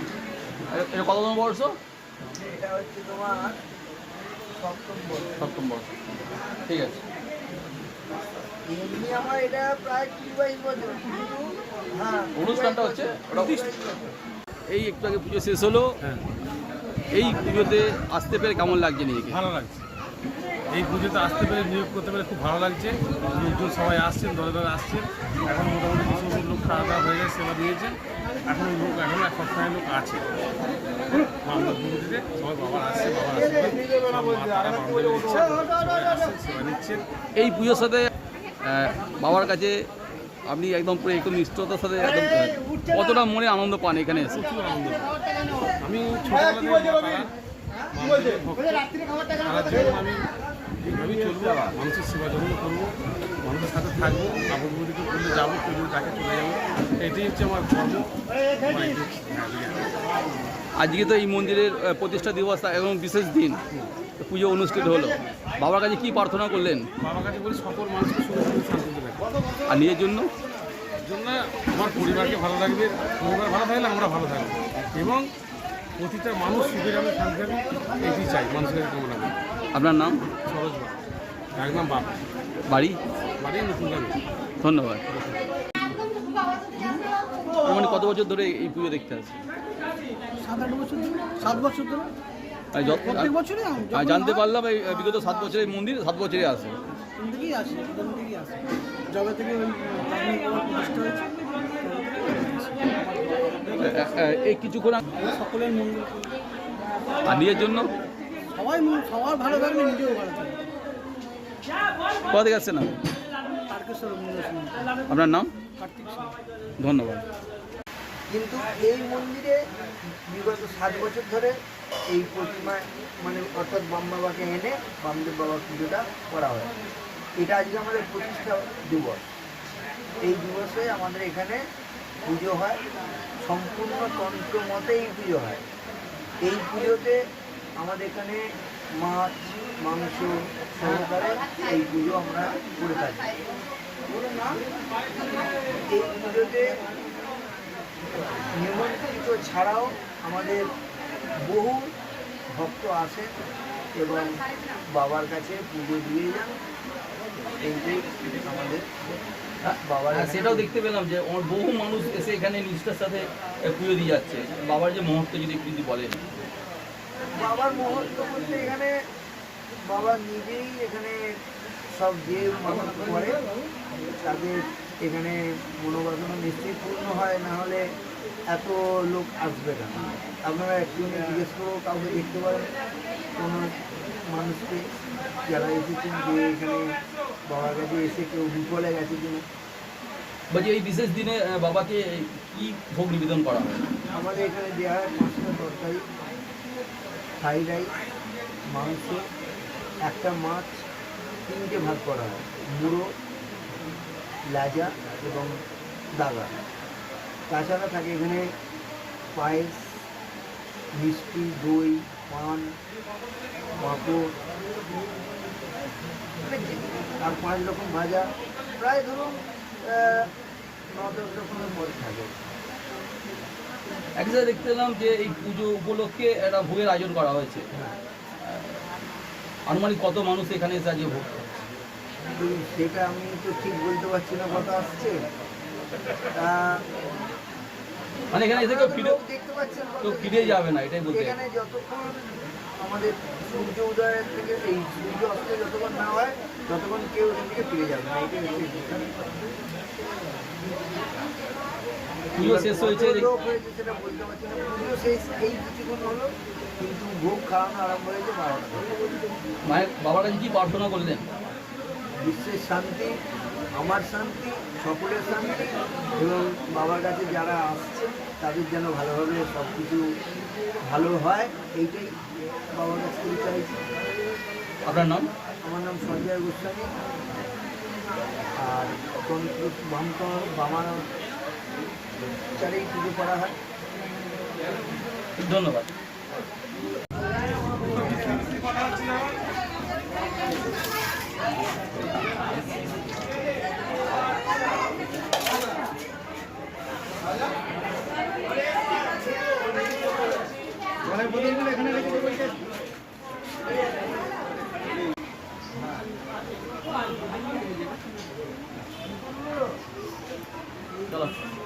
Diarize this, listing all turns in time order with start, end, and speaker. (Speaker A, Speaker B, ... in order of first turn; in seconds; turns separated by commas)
Speaker A: 0.7-1.8, Speaker B: 2.3-3.6, Speaker B: 4.6-5.3, Speaker A: 5.4-5.9, Speaker A: 6.7-7.0, Speaker B: 8.7-14.1, Speaker A: 12.4-13.7, Speaker A: 14.7-15.9, Speaker A: 17.1-19.4, Speaker C: 19.3-19.8, Speaker C: 20.7-30.2, Speaker C: 31.1-37.0, Speaker A: 37.4-38.1, Speaker A: 38.6-39.9, Speaker A: 40.5-44.4, Speaker C: 44.4-47.3, Speaker C: 47.9-50.3, Speaker C: 50.8-60.0, Speaker A: 60.8-63.6, Speaker A: 64.2-66.9, Speaker C: 67.0-69.2, Speaker A: 69.7-70.3, Speaker C: 71.0-75.3, Speaker C: 76.0-79.3, Speaker A: 79.7-80.2, Speaker C: 80.5-81.0, Speaker C: 81.5-82.2, Speaker A: 82.7-83.0, Speaker C: 83.4-84.2, Speaker A: 84.6-85.0, Speaker C: 85.1-85.4, Speaker D: 86.8-87.0, Speaker A: 87.6-89.3, Speaker D: 90.3-92.1, Speaker A: 92.7-93.4, Speaker D: 93.0-94.4, Speaker A: 93.9-96.7, Speaker D: 95.0-95.5, Speaker D: 97.1-104.2, Speaker A: 103.8-105.0, Speaker D: 105.1-106.4, Speaker A: 107.2-107.9, Speaker D: 108.5-110.7, Speaker A: 112.3-112.9, Speaker D: 113.7-114.9, Speaker A: 115.1-115.5, Speaker D: 115.8-116.3, Speaker A: 116.8-117.2, Speaker B: 118.3-119.6, Speaker B: 120.3-121.5, Speaker B: 122.1-126.7, Speaker B: 127.4-129.2, Speaker B: 130.2-131.6, Speaker B: 132.2-132.8, Speaker B: 133.4-135.6, Speaker B: 136.4-137.2, Speaker B: 137.8-138.4, Speaker B: 138.9-143.3, Speaker B: 145.9-146.8, Speaker B: 148.4-150.6, Speaker B: 151.4-151.9, Speaker B: 152.6-153.3, Speaker B: 153.9-154.3, Speaker B: 154.9-156.5, Speaker B: 157.6-158.8, Speaker A: 159.6-166.2, Speaker B: 159.8-160.7, Speaker B: 167.3-169.0, Speaker B: 169.8-171.2, Speaker B: 171.9-173.4, Speaker B: 174.2-177.8, Speaker B: 178.5-182.7, Speaker B: 183.4-184.8, Speaker B: 185.4-186.9, Speaker B: 187.5-189.4, Speaker A: 190.5-193.8, Speaker B: 194.1-196.0, Speaker B: 197.4-197.9, Speaker B: 198.7-199.2, Speaker B: 200.0-200.8, Speaker B: 201.5-203.1, Speaker B: 204.5-205.5, Speaker B: 206.2-206.5, Speaker B: 207.5-208.4, Speaker B: 209.3-209.9, Speaker B: 210.9-212.7, Speaker B: 213.8-214.3, Speaker B: 216.4-220.3, Speaker B: 220.9-222.3, Speaker A: 224.2-227.6, Speaker A: 228.4-228.8, Speaker A: 229.7-231.4, Speaker B: 232.3-235.2, Speaker B: 236.3-236.8, Speaker A: 238.3-239.2, Speaker B: 238.4-242.2, Speaker A: 240.0-241.3, Speaker B: 242.8-249.1, Speaker A: 252.3-253.3, Speaker B: 252.4-258.9, Speaker A: 259.6-261.2, Speaker B: 262.2-263.1, Speaker B: 263.8-270.0, Speaker B: 270.9-272.1, Speaker B: 272.7-273.8, Speaker A: 274.9-275.3, Speaker B: 275.6-276.9, Speaker B: 278.6-281.0, Speaker B: 282.6-283.5, Speaker A: 285.4-285.9, Speaker C: 288.0-288.4, Speaker A: 311.1-311.4